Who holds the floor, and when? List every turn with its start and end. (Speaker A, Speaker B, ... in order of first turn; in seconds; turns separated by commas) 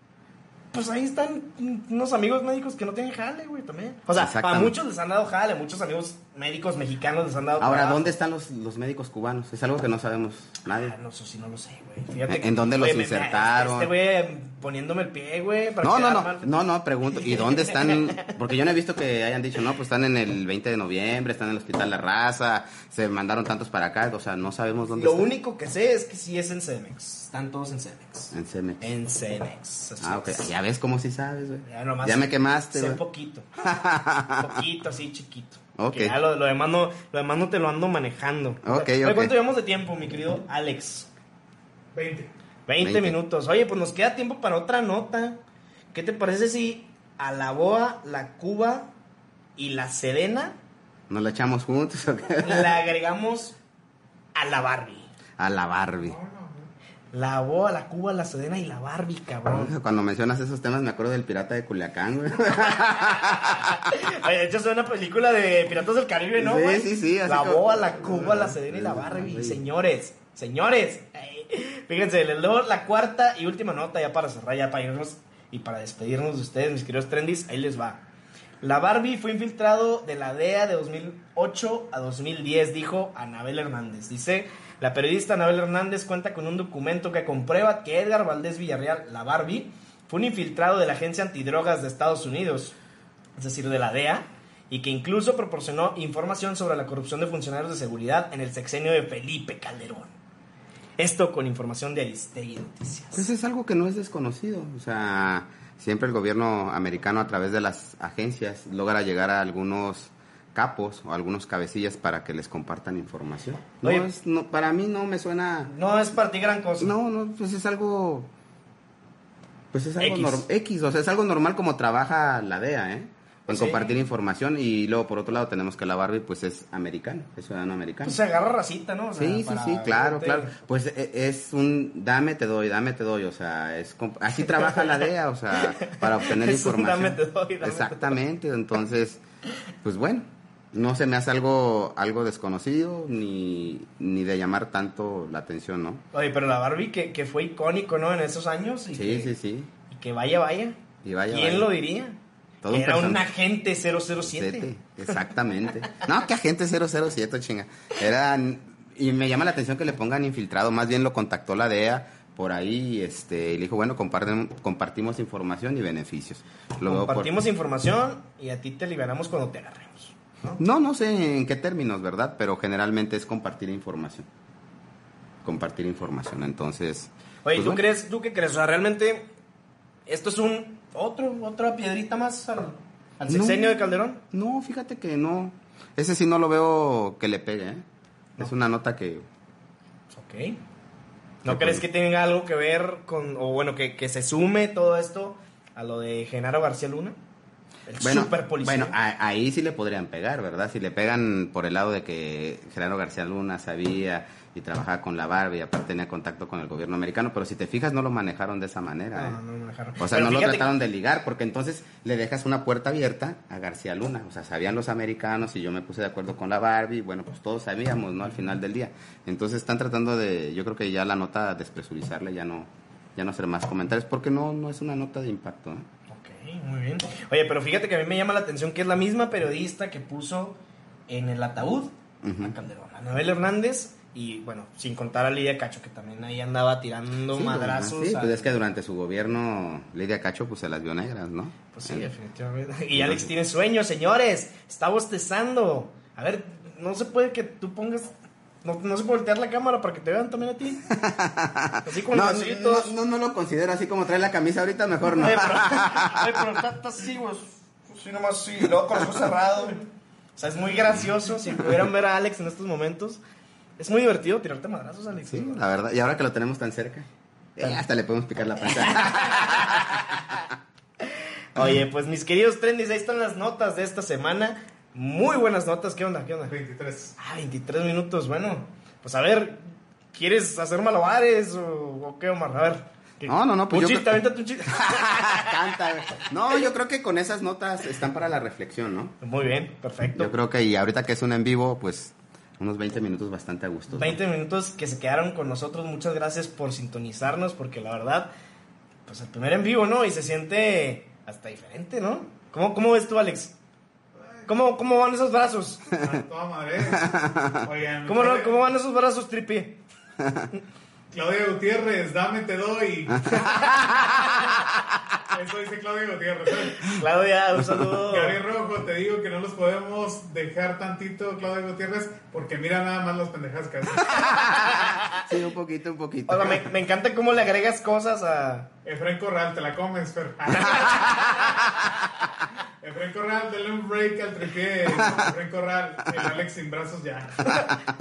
Speaker A: 0.7-8.1, Speaker B: 4.2-4.8, Speaker B: 7.6-10.9, Speaker A: 10.7-16.5, Speaker B: 12.3-13.9, Speaker B: 15.8-25.3, Speaker A: 17.3-18.2, Speaker A: 24.9-30.5, Speaker B: 28.3-28.9, Speaker B: 30.0-33.0, Speaker A: 31.7-33.5, Speaker B: 33.6-34.6, Speaker A: 34.4-41.1, Speaker B: 35.8-36.2, Speaker B: 38.6-39.3, Speaker C: 42.0-42.3, Speaker A: 42.7-45.4, Speaker B: 42.8-43.2, Speaker A: 45.9-48.9, Speaker A: 49.6-50.6, Speaker B: 51.1-52.8, Speaker A: 52.4-53.6, Speaker A: 54.4-55.1, Speaker B: 55.4-56.2, Speaker C: 56.0-56.7, Speaker A: 57.1-59.7, Speaker B: 59.5-63.8, Speaker A: 63.1-78.0, Speaker B: 66.4-69.6, Speaker A: 78.6-92.8, Speaker A: 93.4-100.1, Speaker A: 101.0-103.3, Speaker B: 103.1-115.7, Speaker A: 113.8-114.1, Speaker A: 115.7-117.0, Speaker B: 116.8-118.3, Speaker B: 119.7-128.2, Speaker A: 120.0-120.5, Speaker A: 123.5-123.9, Speaker A: 128.0-130.6, Speaker B: 129.2-139.2, Speaker A: 134.7-134.9, Speaker A: 135.5-138.2, Speaker B: 139.8-146.0, Speaker A: 146.1-149.3, Speaker B: 148.9-149.7, Speaker A: 149.9-152.2, Speaker B: 151.0-151.7, Speaker B: 152.6-153.3, Speaker A: 152.7-155.1, Speaker B: 154.2-167.3, Speaker A: 166.8-170.6, Speaker B: 170.6-174.3, Speaker B: 175.4-177.8, Speaker A: 177.4-179.3, Speaker A: 180.1-184.2, Speaker B: 183.3-187.8, Speaker B: 188.4-189.3, Speaker A: 190.1-190.6, Speaker A: 191.4-197.2, Speaker B: 191.4-191.8, Speaker A: 197.9-199.0, Speaker B: 198.0-209.4, Speaker A: 209.1-210.7, Speaker B: 210.0-225.9, Speaker A: 226.1-230.6, Speaker A: 231.1-238.5, Speaker B: 232.2-232.5, Speaker B: 237.3-242.1, Speaker A: 241.7-248.1, Speaker B: 242.9-243.3, Speaker A: 248.6-250.9, Speaker B: 250.9-256.4, Speaker A: 251.8-252.9, Speaker A: 255.1-263.2, Speaker A: 263.8-265.7, Speaker B: 265.3-270.4, Speaker A: 269.4-269.7, Speaker A: 271.6-276.5, Speaker C: 276.5-277.2, Speaker A: 277.2-279.6, Speaker A: 280.1-285.8, Speaker B: 283.3-289.2, Speaker A: 289.2-290.3, Speaker B: 290.2-294.2, Speaker A: 293.9-298.3, Speaker A: 299.1-303.6, Speaker A: 304.5-306.0, Speaker C: 305.9-308.6, Speaker B: 306.9-307.7, Speaker A: 308.1-309.8, Speaker B: 310.2-310.5, Speaker C: 311.1-314.1, Speaker B: 313.2-314.4, Speaker C: 315.3-316.9, Speaker A: 316.9-318.4, Speaker C: 318.1-324.4, Speaker B: 324.1-326.7, Speaker A: 324.1-325.2, Speaker A: 326.3-328.7, Speaker C: 328.9-331.6, Speaker B: 330.7-331.1, Speaker A: 330.8-331.6, Speaker C: 332.8-337.5, Speaker B: 335.0-335.2, Speaker B: 337.4-337.8